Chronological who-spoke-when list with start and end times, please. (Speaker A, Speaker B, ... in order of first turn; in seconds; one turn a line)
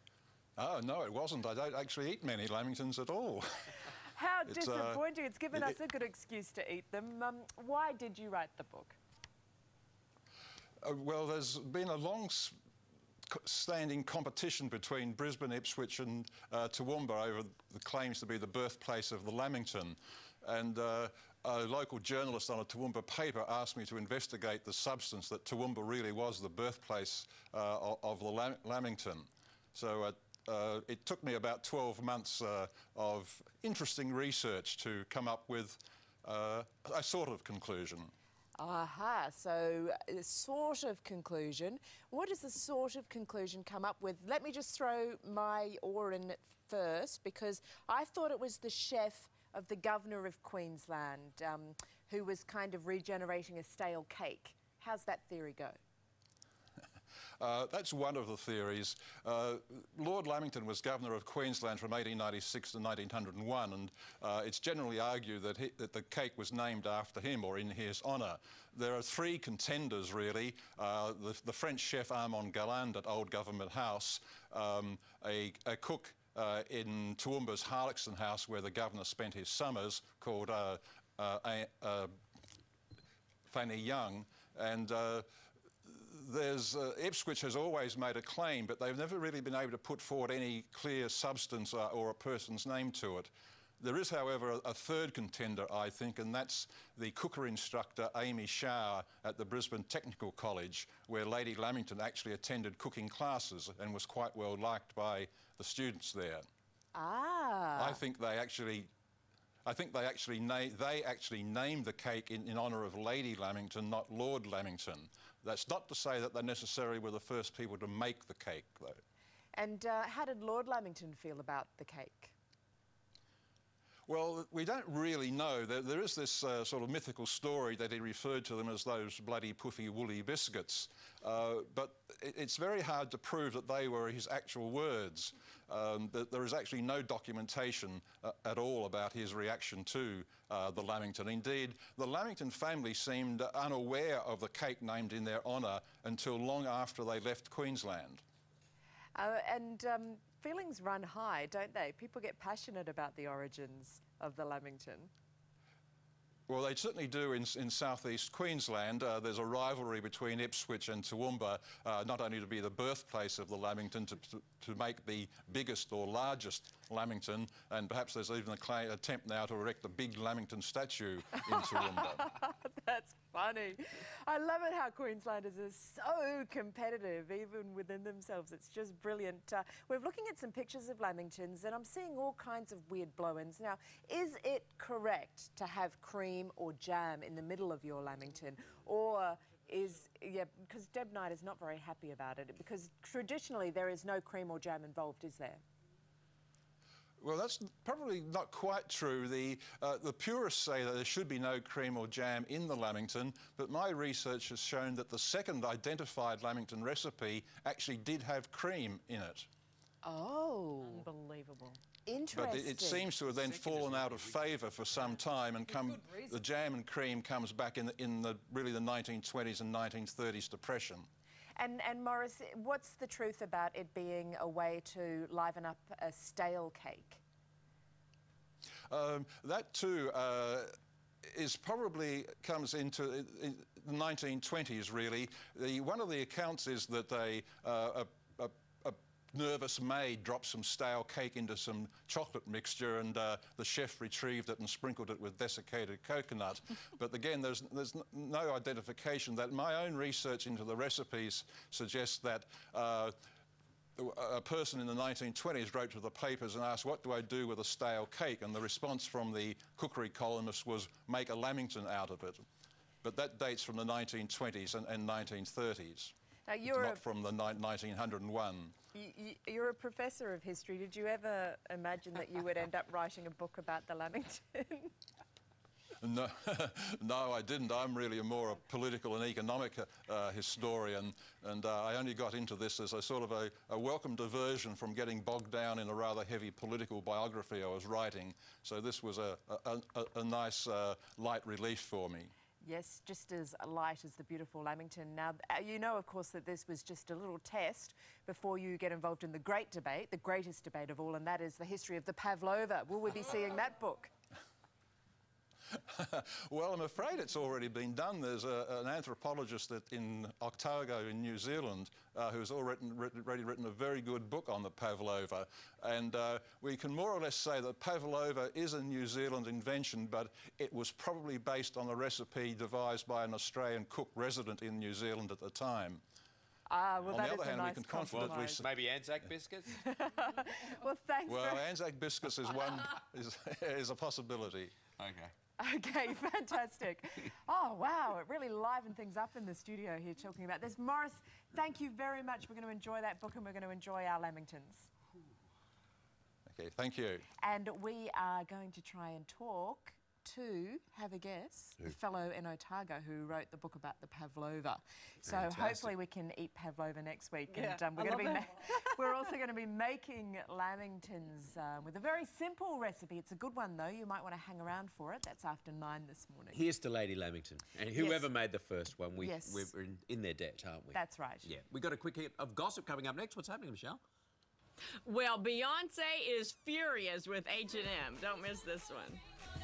Speaker A: 0.6-3.9
Speaker B: 4.0-9.0
Speaker A: 4.5-5.0
Speaker A: 10.8-12.6
Speaker A: 13.3-38.1
Speaker B: 38.6-55.8
Speaker A: 57.4-82.1
Speaker A: 83.5-85.3
Speaker A: 85.8-106.5
Speaker B: 106.9-108.0
Speaker A: 107.8-108.9
Speaker A: 109.7-119.0
Speaker B: 119.5-122.3
Speaker A: 124.1-148.2
Speaker B: 149.2-155.1
Speaker A: 156.5-172.3
Speaker B: 171.6-195.6
Speaker A: 197.2-209.5
Speaker B: 210.0-211.1
Speaker C: 211.0-211.8
Speaker B: 212.1-213.1
Speaker A: 212.3-221.1
Speaker D: 213.7-214.1
Speaker B: 221.6-227.2
Speaker A: 228.9-230.7
Speaker A: 231.2-253.2
Speaker A: 254.0-262.4
Speaker A: 263.0-266.1
Speaker B: 266.5-267.0
Speaker A: 266.7-268.7
Speaker B: 268.9-274.9
Speaker A: 276.0-292.3
Speaker B: 292.6-304.1
Speaker A: 305.8-326.0
Speaker B: 326.7-328.6
Speaker A: 327.1-328.7
Speaker D: 328.1-329.8
Speaker B: 329.8-331.6
Speaker A: 331.3-334.8
Speaker D: 335.0-335.3
Speaker B: 335.6-344.9
Speaker A: 346.5-347.3
Speaker B: 347.4-366.6
Speaker D: 355.3-355.8
Speaker D: 366.5-374.0
Speaker B: 367.9-368.2
Speaker B: 369.2-369.7
Speaker B: 370.9-371.5
Speaker C: 375.0-379.2